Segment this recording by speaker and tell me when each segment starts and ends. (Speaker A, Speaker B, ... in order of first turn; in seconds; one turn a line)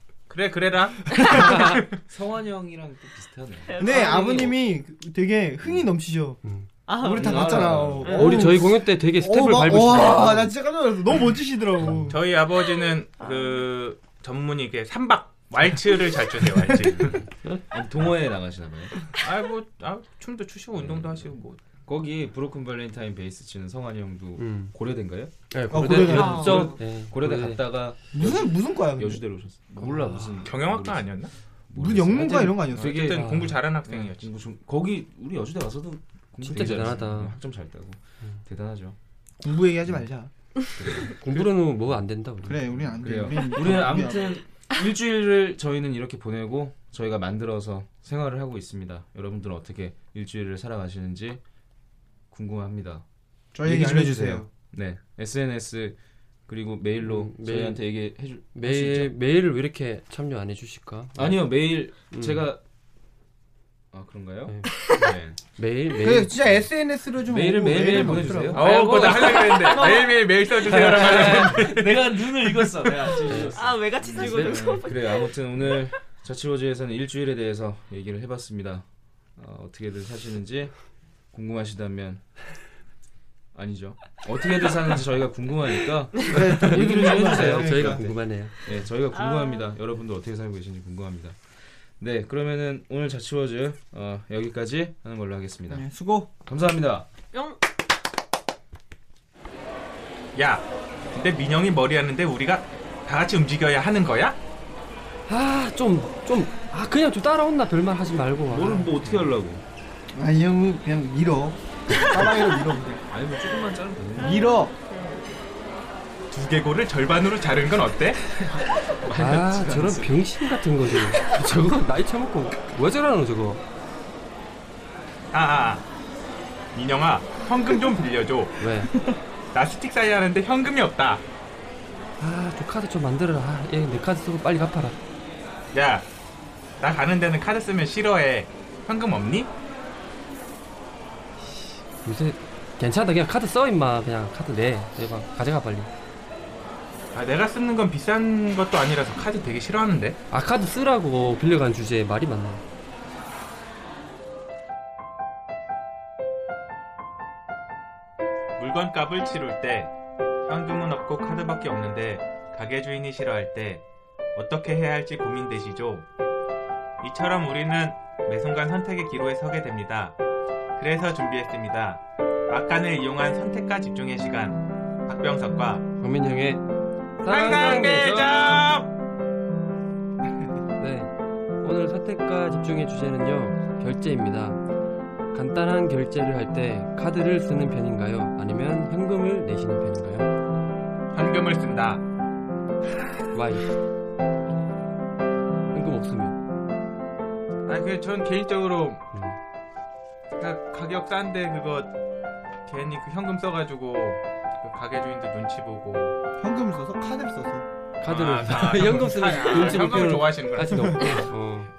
Speaker A: 0.3-1.8
Speaker B: 1.2-1.7
Speaker C: 2.1-4.0
Speaker D: 3.6-4.6
Speaker B: 3.8-12.2
Speaker D: 6.9-8.5
Speaker C: 7.0-8.5
Speaker E: 8.0-10.5
Speaker E: 11.8-12.1
Speaker A: 12.1-17.2
Speaker D: 13.2-13.5
Speaker C: 16.9-18.9
Speaker A: 19.1-21.6
Speaker C: 20.7-31.2
Speaker E: 24.4-24.7
Speaker E: 25.5-27.6
Speaker B: 25.7-26.8
Speaker D: 26.1-26.6
Speaker B: 28.1-29.2
Speaker E: 29.8-30.5
Speaker A: 30.4-31.3
Speaker C: 31.7-39.0
Speaker B: 31.7-33.1
Speaker A: 32.5-34.3
Speaker E: 33.1-33.6
Speaker E: 36.4-37.3
Speaker B: 39.4-40.3
Speaker C: 40.8-41.4
Speaker E: 41.1-42.8
Speaker B: 42.4-44.4
Speaker C: 42.9-51.4
Speaker C: 52.3-53.0
Speaker B: 53.5-54.5
Speaker C: 53.6-59.1
Speaker E: 57.0-57.9
Speaker E: 58.5-62.5
Speaker C: 61.1-62.6
Speaker C: 63.9-65.4
Speaker E: 64.5-66.3
Speaker B: 66.0-68.7
Speaker C: 67.2-70.0
Speaker E: 67.9-69.0
Speaker A: 68.5-73.2
Speaker D: 68.9-70.8
Speaker C: 70.6-78.8
Speaker E: 73.2-73.5
Speaker D: 73.3-75.9
Speaker E: 74.1-74.6
Speaker C: 79.3-82.2
Speaker C: 83.5-95.8
Speaker B: 86.2-88.2
Speaker E: 86.5-88.5
Speaker D: 89.1-89.7
Speaker B: 95.7-96.3
Speaker C: 96.4-97.1
Speaker D: 97.3-97.6
Speaker A: 100.3-104.4
Speaker E: 105.3-109.2
Speaker C: 108.5-109.6
Speaker B: 110.1-113.0
Speaker C: 113.1-114.5
Speaker B: 114.2-114.7
Speaker D: 114.2-115.3
Speaker A: 116.3-118.7
Speaker C: 119.0-120.2
Speaker E: 119.1-123.6
Speaker A: 125.3-125.8
Speaker A: 126.7-131.2
Speaker E: 128.6-128.9
Speaker E: 132.2-135.0
Speaker A: 135.7-136.1
Speaker A: 136.8-139.5
Speaker E: 142.0-145.9
Speaker A: 147.1-150.2
Speaker E: 150.3-152.6
Speaker A: 158.6-159.9
Speaker A: 160.5-163.8
Speaker A: 164.3-166.1
Speaker A: 167.0-170.2
Speaker A: 170.8-175.9
Speaker E: 176.0-176.6
Speaker E: 177.2-178.6
Speaker A: 177.2-178.9
Speaker E: 180.8-184.6
Speaker E: 185.3-190.3
Speaker A: 191.1-192.0
Speaker E: 193.3-193.7
Speaker E: 195.7-196.3
Speaker A: 197.7-199.0
Speaker A: 200.4-201.9
Speaker A: 202.7-206.1
Speaker B: 206.4-207.7
Speaker E: 208.0-211.7
Speaker A: 208.0-211.3